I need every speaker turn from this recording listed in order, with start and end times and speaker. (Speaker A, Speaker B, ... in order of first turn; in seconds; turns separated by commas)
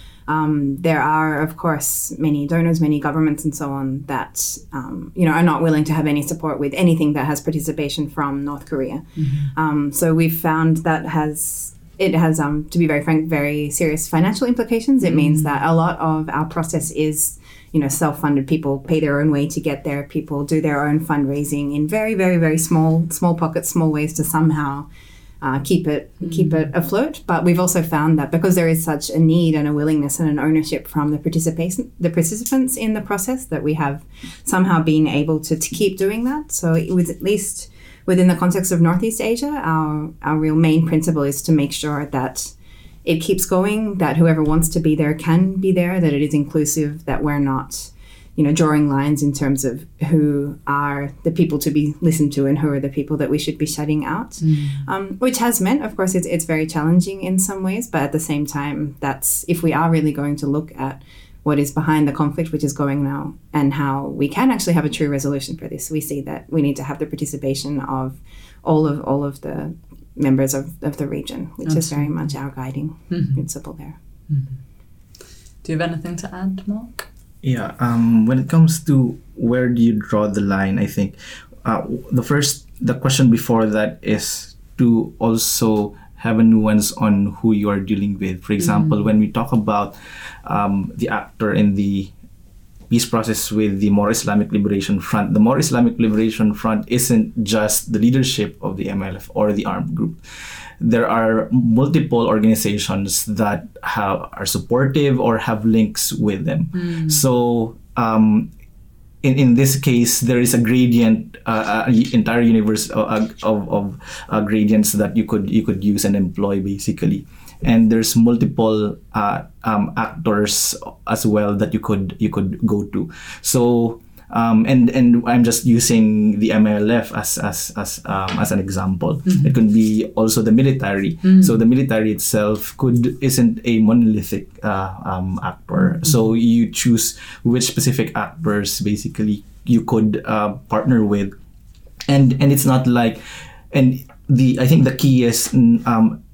Speaker A: 0.3-24.9, Speaker B: 9.2-9.5, Speaker B: 15.1-15.5, Speaker A: 25.4-42.5, Speaker B: 26.2-26.6, Speaker A: 43.0-74.0, Speaker B: 54.4-54.9, Speaker B: 71.7-72.2, Speaker B: 73.1-73.4, Speaker B: 74.3-74.6, Speaker B: 75.6-77.1, Speaker C: 77.4-92.1, Speaker B: 88.6-88.9, Speaker C: 92.9-100.3, Speaker C: 100.8-108.5, Speaker B: 106.8-107.2, Speaker C: 109.2-141.3, Speaker B: 131.2-131.6, Speaker C: 142.1-146.2